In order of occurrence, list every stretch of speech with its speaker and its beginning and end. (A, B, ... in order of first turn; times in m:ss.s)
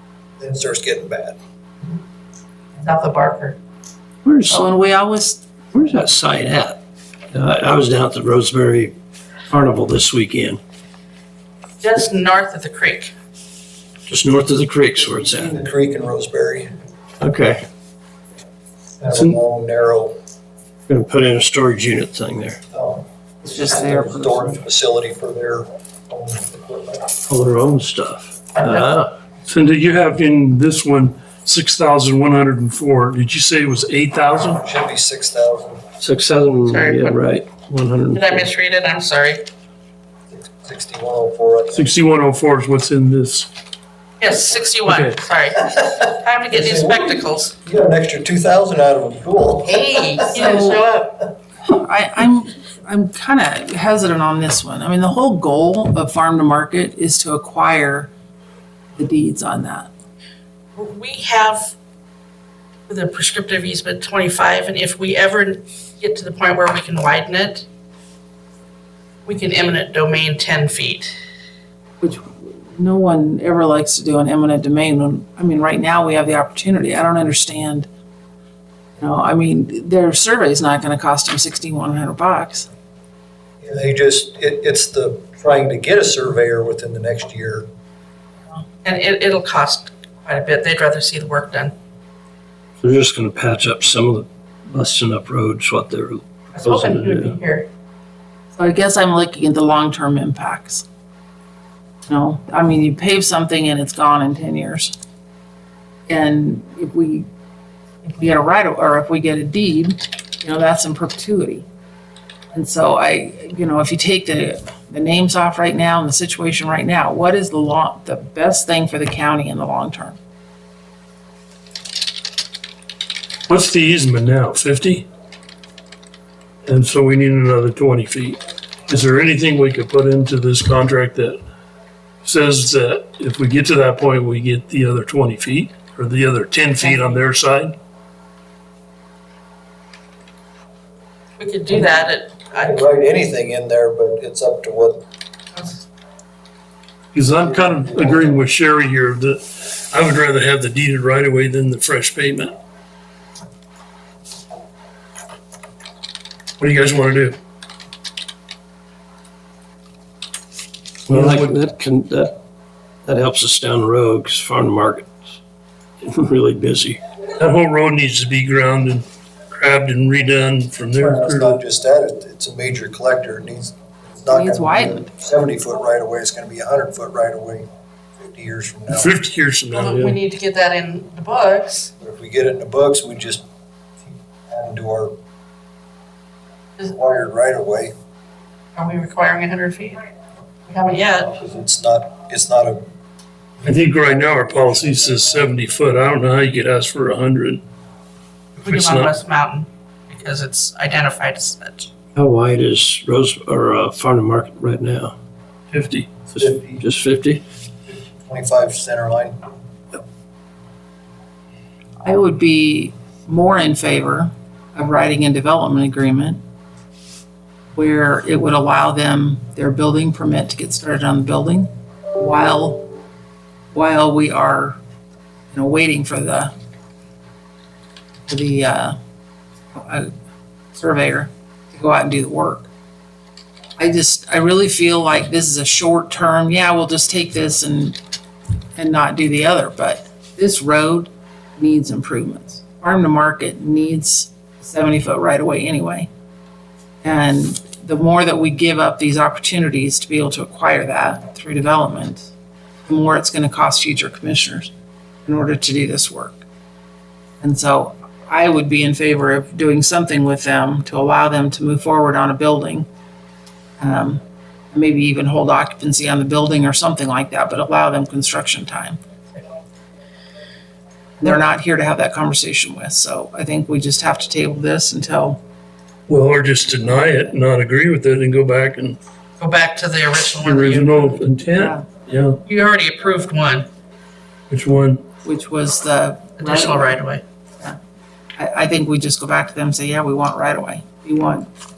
0:00.4-0:01.4 A
0:02.8-0:03.6 B
0:04.2-0:04.6 C
0:04.5-0:05.4 D
0:05.7-0:06.8 C
0:07.3-0:08.9 C
0:09.5-0:10.6 C
0:11.8-0:13.1 B
0:14.1-0:15.6 C
0:15.4-0:16.7 A
0:17.2-0:17.6 C
0:19.0-0:20.2 A
0:20.9-0:22.6 C
0:22.7-0:23.0 A
0:23.4-0:24.6 D
0:23.6-0:27.1 A
0:27.3-0:29.1 C
0:29.5-0:34.6 E
0:34.6-0:35.8 A
0:36.0-0:38.5 C
0:36.6-0:37.2 B
0:38.1-0:39.5 B
0:40.3-0:41.9 A
0:41.7-0:43.5 E
0:44.2-0:47.5 B
0:44.8-0:45.2 E
0:46.5-0:50.4 A
0:49.6-0:51.1 B
0:50.4-0:50.8 D
0:51.6-0:58.1 D
0:59.0-0:59.9 D
1:00.8-1:01.7 B
1:02.9-1:07.6 B
1:09.2-1:11.1 B
1:12.0-1:17.9 D
1:19.0-1:22.7 D
1:23.6-1:27.7 A
1:28.8-1:31.7 B
1:32.8-1:37.4 C
1:36.5-1:37.7 B
1:38.5-1:40.8 D
1:42.1-1:44.9 D
1:46.1-1:47.2 D
1:48.0-1:51.6 D
1:52.5-2:00.2 D
2:03.5-2:05.0 E
2:06.6-2:11.4 E
2:12.2-2:17.8 E
2:16.9-2:17.1 D
2:21.4-2:22.8 B
2:21.7-2:25.0 A
2:27.1-2:32.5 E
2:27.5-2:28.4 A
2:36.6-2:37.4 E
2:41.1-2:42.4 C
2:41.1-2:41.6 E
2:43.0-2:45.4 C
2:46.0-2:47.0 C
2:47.4-2:51.6 E
2:50.9-2:57.7 A
2:54.3-2:55.1 D
2:58.2-2:59.1 A
2:58.9-3:00.2 E
2:59.7-3:01.9 B
3:02.0-3:03.4 A
3:04.5-3:05.2 A
3:06.8-3:07.9 A
3:08.8-3:10.0 B
3:10.6-3:11.3 B
3:11.3-3:12.8 A
3:13.6-3:15.4 A
3:13.6-3:17.6 E
3:18.6-3:21.9 B
3:18.6-3:19.2 E
3:22.1-3:25.1 C
3:25.7-3:26.2 E
3:26.3-3:27.4 C
3:26.4-3:26.8 A
3:27.9-3:29.4 A
3:32.0-3:36.4 D
3:37.7-3:42.9 D
3:43.7-3:44.8 D
3:45.5-3:46.5 D
3:48.3-3:49.0 D
3:49.7-3:50.1 D
3:50.7-3:52.7 D
3:53.8-3:58.0 D
3:58.8-4:06.1 D
4:07.0-4:12.3 D
4:12.8-4:14.7 D
4:15.2-4:16.4 D
4:17.4-4:22.8 D
4:23.8-4:24.2 D
4:24.7-4:29.0 D
4:31.2-4:35.4 D
4:36.1-4:39.0 E
4:36.8-4:37.4 D
4:39.4-4:41.2 B
4:40.4-4:42.4 E
4:41.5-4:41.9 D
4:42.4-4:43.7 B
4:44.5-4:45.0 E
4:45.2-4:47.0 D
4:46.4-4:47.2 B
4:48.4-4:51.5 D